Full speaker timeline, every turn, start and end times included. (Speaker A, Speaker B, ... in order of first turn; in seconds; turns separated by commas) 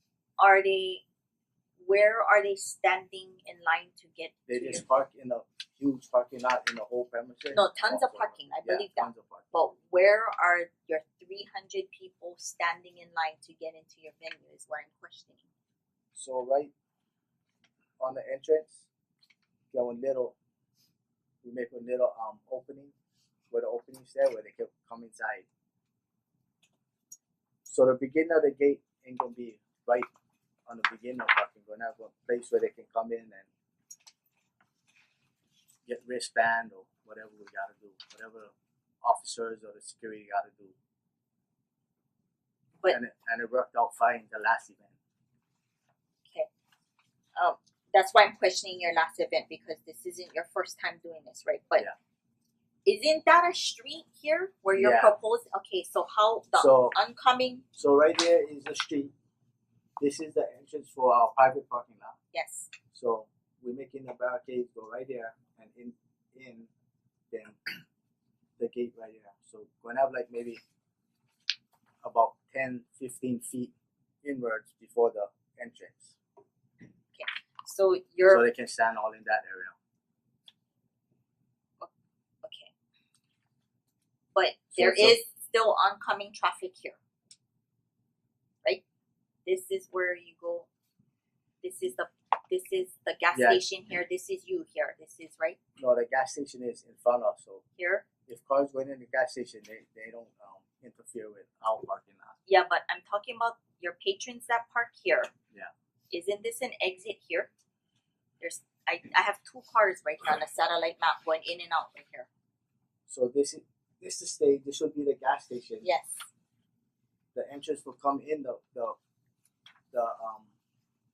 Speaker A: 0.4-1.0, Speaker A: 1.8-4.8, Speaker B: 4.5-9.5, Speaker A: 7.5-15.4, Speaker B: 16.1-16.7, Speaker B: 18.0-18.9, Speaker B: 19.7-20.4, Speaker B: 21.4-22.9, Speaker B: 23.5-25.5, Speaker B: 27.6-30.1, Speaker B: 30.7-33.5, Speaker B: 35.9-40.7, Speaker B: 42.9-44.9, Speaker A: 47.4-51.9, Speaker A: 52.8-57.6, Speaker B: 54.7-55.1, Speaker B: 56.5-56.9, Speaker B: 57.8-59.1, Speaker B: 60.0-62.1, Speaker A: 62.3-62.7, Speaker B: 62.9-66.7, Speaker B: 67.3-67.7, Speaker B: 68.6-70.6, Speaker B: 72.0-76.2, Speaker A: 77.1-78.4, Speaker B: 78.2-79.7, Speaker A: 82.4-82.7, Speaker A: 84.3-87.0, Speaker B: 84.7-85.2, Speaker A: 89.4-90.7, Speaker A: 91.6-95.6, Speaker B: 93.3-93.6, Speaker B: 95.8-97.6, Speaker A: 97.8-98.1, Speaker B: 98.2-102.3, Speaker A: 102.5-105.3, Speaker A: 106.1-107.5, Speaker A: 108.4-112.3, Speaker B: 113.1-115.9, Speaker A: 115.8-116.2, Speaker B: 117.3-119.0, Speaker B: 119.9-120.5